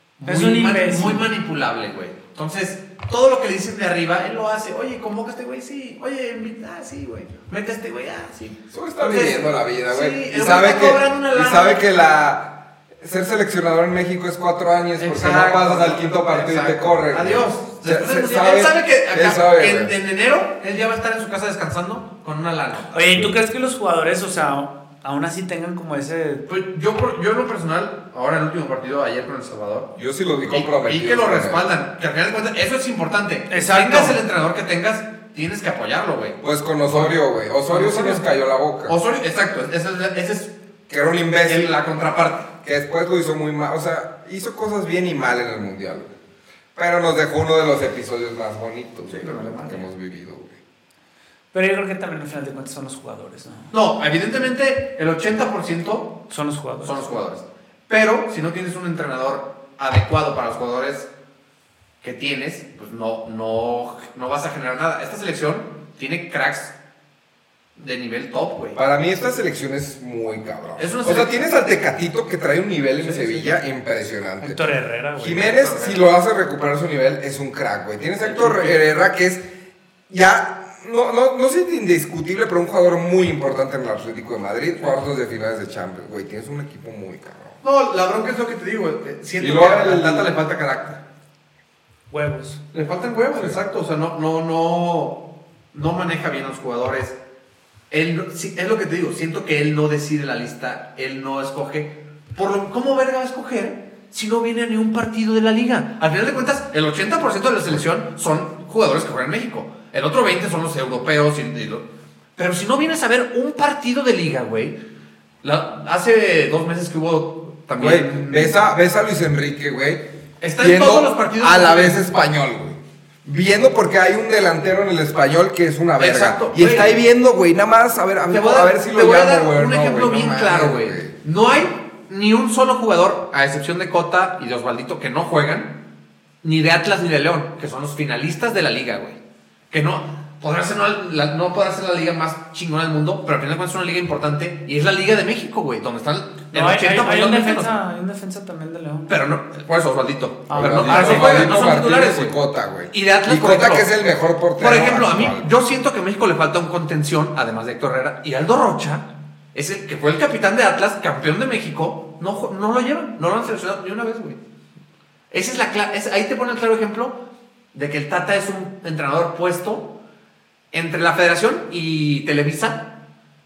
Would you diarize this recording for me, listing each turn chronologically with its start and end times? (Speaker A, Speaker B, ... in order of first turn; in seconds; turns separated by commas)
Speaker A: 0.2-11.8, Speaker B: 0.3-1.3, Speaker C: 8.7-19.9, Speaker A: 15.0-23.3, Speaker B: 22.9-26.4, Speaker A: 26.5-29.9, Speaker C: 29.9-31.7, Speaker A: 30.5-37.2, Speaker B: 33.5-34.2, Speaker C: 36.4-39.0, Speaker A: 37.7-38.3, Speaker A: 38.9-40.5, Speaker C: 40.9-41.8, Speaker A: 41.5-42.5, Speaker C: 42.6-46.1, Speaker C: 46.8-50.5, Speaker A: 49.1-49.9, Speaker B: 51.5-53.7, Speaker A: 53.7-56.2, Speaker B: 56.3-57.1, Speaker A: 56.8-61.1, Speaker A: 62.0-66.7, Speaker A: 67.8-68.8, Speaker C: 68.7-74.6, Speaker A: 70.8-71.5, Speaker A: 73.0-73.6, Speaker B: 74.4-75.6, Speaker C: 75.2-79.4, Speaker A: 75.4-76.0, Speaker A: 78.2-78.8, Speaker C: 80.1-87.6, Speaker A: 87.6-91.0, Speaker C: 89.4-90.3, Speaker B: 92.1-92.6, Speaker A: 92.7-97.2, Speaker C: 93.3-93.6, Speaker A: 97.9-114.8, Speaker A: 115.4-118.6, Speaker C: 117.8-131.1, Speaker A: 120.4-122.0, Speaker A: 126.0-127.0, Speaker A: 128.3-135.8, Speaker A: 136.4-139.2, Speaker A: 139.7-147.7, Speaker B: 146.5-149.1, Speaker A: 149.1-152.4, Speaker B: 150.5-151.6, Speaker C: 150.5-155.5, Speaker A: 152.9-153.9, Speaker A: 154.6-164.4, Speaker A: 165.3-167.2, Speaker A: 167.7-169.9, Speaker A: 170.7-172.9